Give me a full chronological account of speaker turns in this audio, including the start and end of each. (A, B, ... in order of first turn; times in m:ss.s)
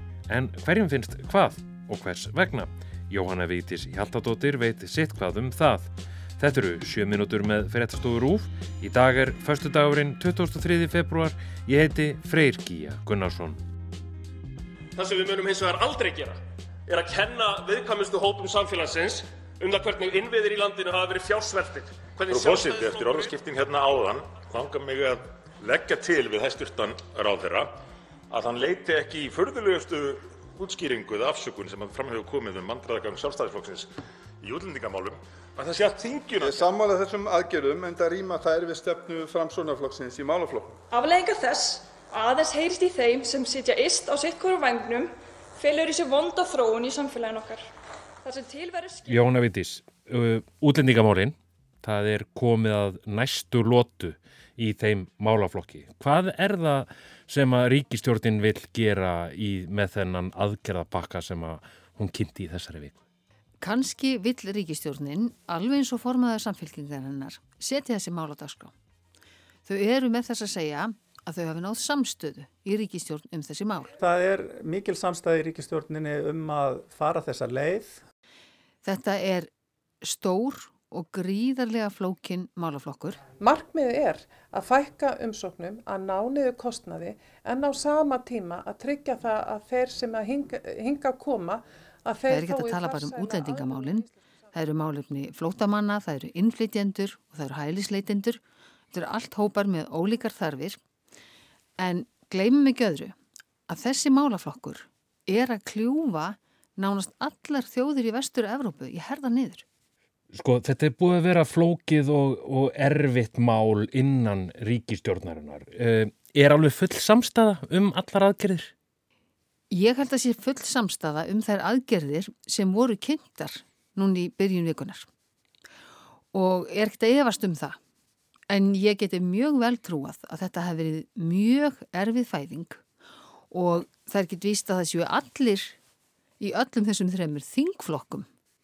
0:00.3-0:13.6 A
0:15.0-0:23.3 B
0:22.3-0:27.7 C
0:28.3-0:33.9 C
0:34.4-0:36.7 C
0:36.4-0:40.8 D
0:40.9-0:47.6 E
0:48.2-0:49.1 E
0:49.1-1:03.0 A
1:03.6-1:08.7 F
1:09.6-1:13.9 F
1:14.0-1:18.0 G
1:18.8-1:19.5 F
1:20.0-1:23.2 F
1:23.4-1:34.0 H
1:32.3-1:38.4 F
1:38.9-1:40.8 F
1:41.8-1:43.1 F
1:43.7-1:49.6 F
1:50.3-1:58.7 A
1:59.7-2:05.1 F
2:06.3-2:07.8 F
2:08.5-2:12.8 F
2:13.5-2:15.8 F
2:16.4-2:18.3 F